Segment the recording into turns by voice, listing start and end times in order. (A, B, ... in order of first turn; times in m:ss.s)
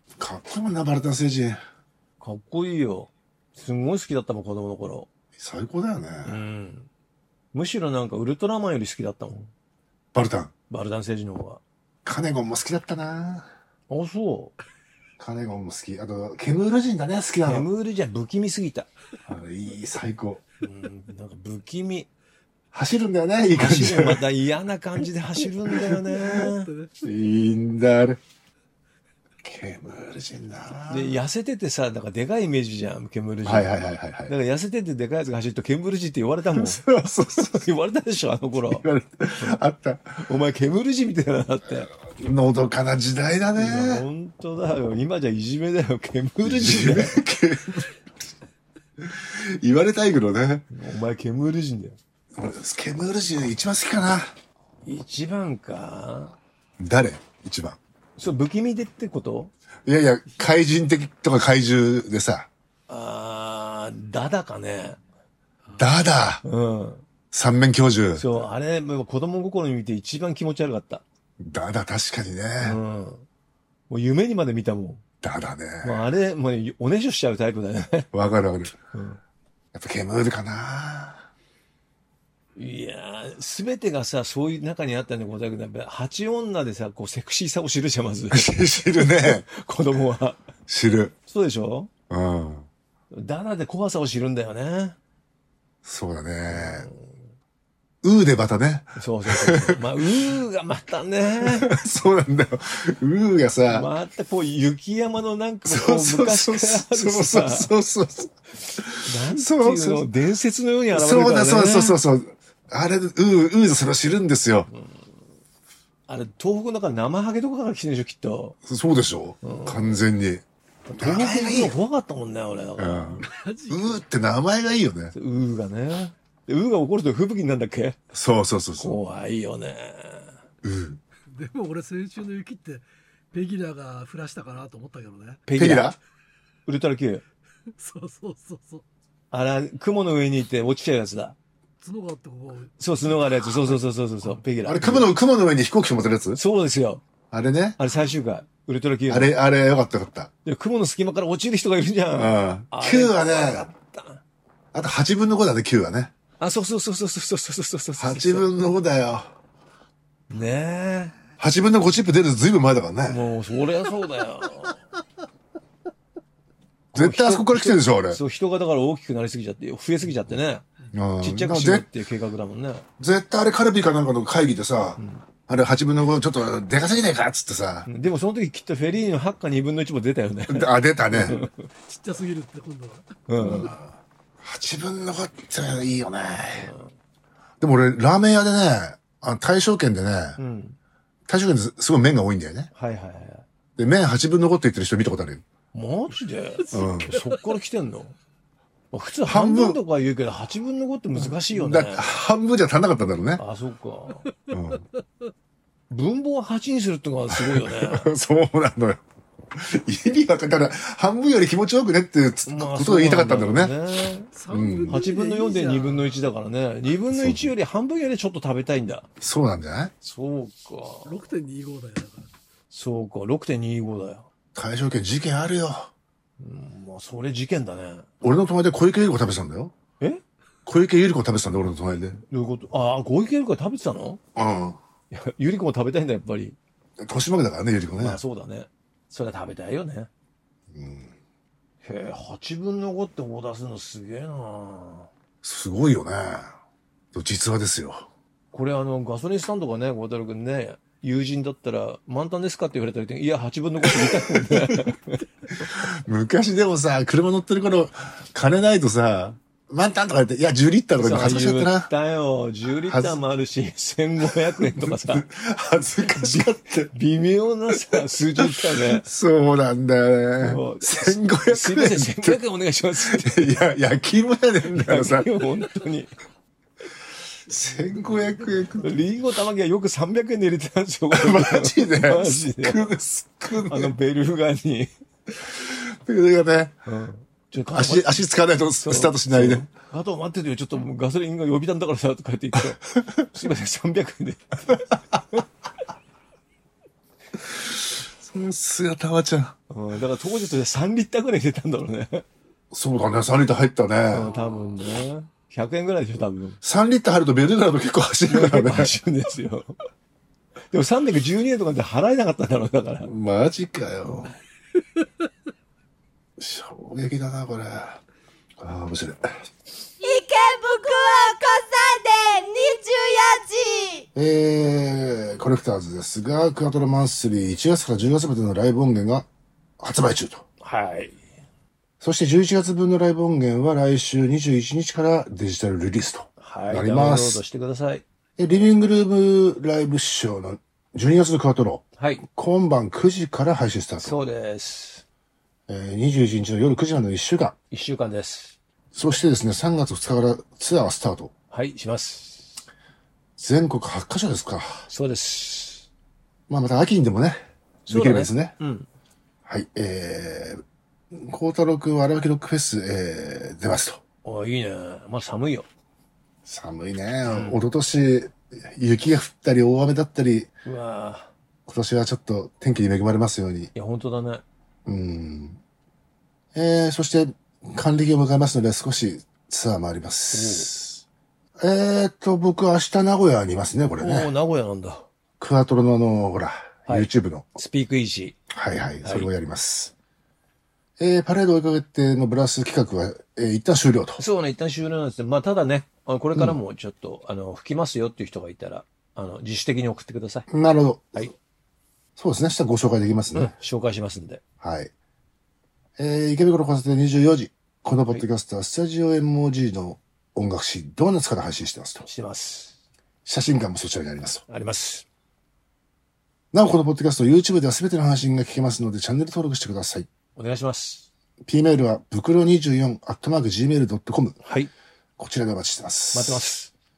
0:00.2-0:01.6 A
0:02.2-0:05.1 B
0:05.4-0:06.4 A
0:06.2-0:06.9 B
0:07.5-0:09.5 B
0:10.1-0:10.5 A
0:10.7-0:11.6 B
0:12.0-0:13.5 A
0:13.9-0:14.6 B
0:15.2-0:17.7 A
0:17.4-0:18.9 B
0:19.2-0:20.4 A
0:20.6-0:22.1 B
0:22.7-0:24.3 A
0:23.5-0:26.7 B
0:25.7-0:26.0 A
0:26.4-0:26.9 C
0:27.0-0:28.2 A
0:29.4-0:31.2 A
0:30.9-0:36.8 B
0:33.4-0:34.3 A
0:36.5-0:37.7 A
0:37.4-0:38.8 B
0:38.7-0:40.2 A
0:40.2-0:41.9 B
0:41.9-0:44.0 A
0:43.6-0:47.2 B
0:46.4-0:47.9 A
0:49.0-0:50.7 A
0:50.7-0:52.0 B
0:52.3-0:54.3 A
0:54.8-0:56.4 B
0:56.8-0:57.8 A
0:58.2-0:59.5 B
0:59.8-1:02.5 A
1:02.9-1:05.0 B
1:05.8-1:06.4 A
1:06.4-1:07.0 B
1:07.3-1:08.2 A
1:08.1-1:11.0 B
1:11.4-1:12.8 A
1:12.6-1:13.2 B
1:13.9-1:15.0 B
1:15.2-1:16.0 A
1:15.8-1:18.1 B
1:18.1-1:18.7 A
1:18.9-1:19.2 B
1:19.7-1:21.3 A
1:22.6-1:30.4 B
1:28.3-1:29.5 A
1:30.7-1:31.1 A
1:31.3-1:31.9 B
1:32.1-1:32.6 A
1:33.1-1:35.0 B
1:35.8-1:36.9 A
1:36.5-1:37.2 B
1:38.0-1:40.1 A
1:39.0-1:41.7 B
1:41.4-1:43.9 A
1:43.7-1:47.7 B
1:45.6-1:50.1 A
1:49.0-1:52.0 B
1:50.9-1:54.7 A
1:54.7-1:55.2 B
1:56.1-1:58.6 B
1:58.6-2:00.4 A
1:59.4-2:00.0 B
2:00.9-2:03.3 B
2:00.9-2:01.8 A
2:02.8-2:05.1 A
2:03.2-2:04.0 C
2:05.1-2:08.0 B
2:08.1-2:09.0 A
2:08.8-2:10.4 B
2:10.6-2:11.0 A
2:11.3-2:15.4 C
2:15.4-2:16.0 B
2:15.6-2:16.0 A
2:16.6-2:17.2 B
2:17.7-2:18.8 C
2:19.3-2:21.4 B
2:21.8-2:22.7 C
2:22.8-2:25.1 B
2:23.4-2:23.8 A
2:24.6-2:26.4 A
2:26.3-2:27.0 B
2:27.3-2:27.8 A
2:27.8-2:29.3 B
2:29.1-2:30.3 A
2:30.4-2:34.2 B
2:32.1-2:33.7 A
2:34.7-2:36.1 A
2:36.4-2:38.5 B
2:38.0-2:39.3 A
2:40.3-2:41.2 B
2:41.4-2:43.2 A
2:43.1-2:44.8 B
2:46.9-2:50.6 B
2:46.9-2:48.2 A
2:50.9-2:51.8 A
2:51.2-2:52.8 B
2:53.0-2:57.9 A
2:55.0-2:55.2 B
2:57.8-3:01.6 B
3:00.5-3:01.4 A
3:01.8-3:03.1 C
3:03.3-3:03.7 B
3:03.4-3:06.7 A
3:06.6-3:06.9 B
3:07.6-3:10.4 A
3:10.4-3:10.8 B
3:11.3-3:12.7 A
3:12.7-3:13.4 B
3:13.8-3:15.4 A
3:15.7-3:18.2 B
3:16.7-3:17.1 A
3:16.8-3:17.3 C
3:18.9-3:22.2 B
3:19.2-3:19.8 A
3:21.5-3:23.4 A
3:23.4-3:24.3 B
3:24.5-3:24.8 A
3:24.5-3:24.8 C
3:25.9-3:28.1 B
3:27.3-3:29.0 A
3:29.5-3:33.7 A
3:32.4-3:34.3 B
3:34.3-3:36.2 C
3:34.5-3:34.9 A
3:34.9-3:39.1 B
3:37.1-3:37.5 A
3:39.2-3:39.9 A
3:40.0-3:41.2 B
3:41.0-3:42.3 C
3:42.7-3:44.3 B
3:44.5-3:45.9 A
3:46.4-3:48.1 B
3:48.2-3:49.7 A
3:50.6-3:52.2 A
3:52.3-3:54.2 B
3:54.4-3:54.8 A
3:55.1-3:56.6 B
3:57.0-3:58.2 A
3:58.0-4:00.1 B
4:00.7-4:01.1 A
4:01.8-4:05.1 B
4:05.4-4:06.6 A
4:07.1-4:08.0 A
4:08.5-4:15.2 B
4:13.8-4:14.9 A
4:15.6-4:21.9 A
4:21.0-4:25.2 B
4:22.9-4:23.2 A
4:24.5-4:26.9 A
4:26.0-4:29.0 B
4:27.9-4:32.4 A
4:30.4-4:33.6 B
4:33.0-4:35.3 A
4:34.7-4:36.1 B
4:37.5-4:39.0 A
4:38.8-4:42.9 B
4:41.1-4:43.9 A
4:43.5-4:44.9 B
4:45.4-4:46.8 A
4:46.8-4:48.2 B
4:47.7-4:49.7 A
4:48.8-4:55.4 B
4:52.5-4:53.3 A
4:57.4-4:59.6 A
4:59.7-5:02.2 B
5:02.7-5:04.3 A
5:04.1-5:06.6 B
5:06.6-5:09.0 A
5:08.3-5:09.7 B
5:10.7-5:13.1 B
5:13.0-5:14.3 A
5:16.4-5:18.0 A
5:18.6-5:19.4 A
5:20.0-5:24.1 D
5:24.1-5:29.3 A
5:29.8-5:30.4 A
5:30.6-5:31.2 B
5:32.0-5:37.4 A
5:36.4-5:38.0 B
5:38.4-5:44.2 A
5:42.0-5:42.2 B
5:44.0-5:45.0 B
5:45.7-5:47.6 A
5:47.7-5:48.6 B
5:48.9-5:51.3 A
5:51.5-5:52.6 B
5:53.4-5:54.9 A
5:54.9-5:55.8 B
5:56.5-5:58.5 A
5:57.9-5:58.9 B
5:59.4-6:04.0 A
6:04.2-6:05.7 B
6:06.4-6:10.5 A
6:07.2-6:07.6 B
6:10.6-6:11.3 B
6:11.7-6:13.7 A
6:13.7-6:14.4 B
6:14.8-6:15.6 A
6:16.5-6:21.0 A
6:20.3-6:20.7 B
6:21.6-6:24.3 A
6:24.0-6:25.1 B
6:25.4-6:27.5 A
6:26.8-6:28.4 B
6:28.5-6:29.9 A
6:29.0-6:29.3 B
6:31.0-6:34.2 A
6:34.2-6:40.5 B
6:40.5-6:41.3 A
6:42.2-6:43.5 A
6:43.3-6:44.4 B
6:44.6-6:44.9 A
6:46.0-6:52.0 A
6:52.0-6:52.7 B
6:53.2-6:54.4 A
6:54.5-6:55.0 B
6:56.5-7:00.1 A
7:00.4-7:01.1 B
7:01.4-7:04.4 A
7:04.4-7:04.7 B
7:05.2-7:06.4 A
7:06.1-7:06.7 B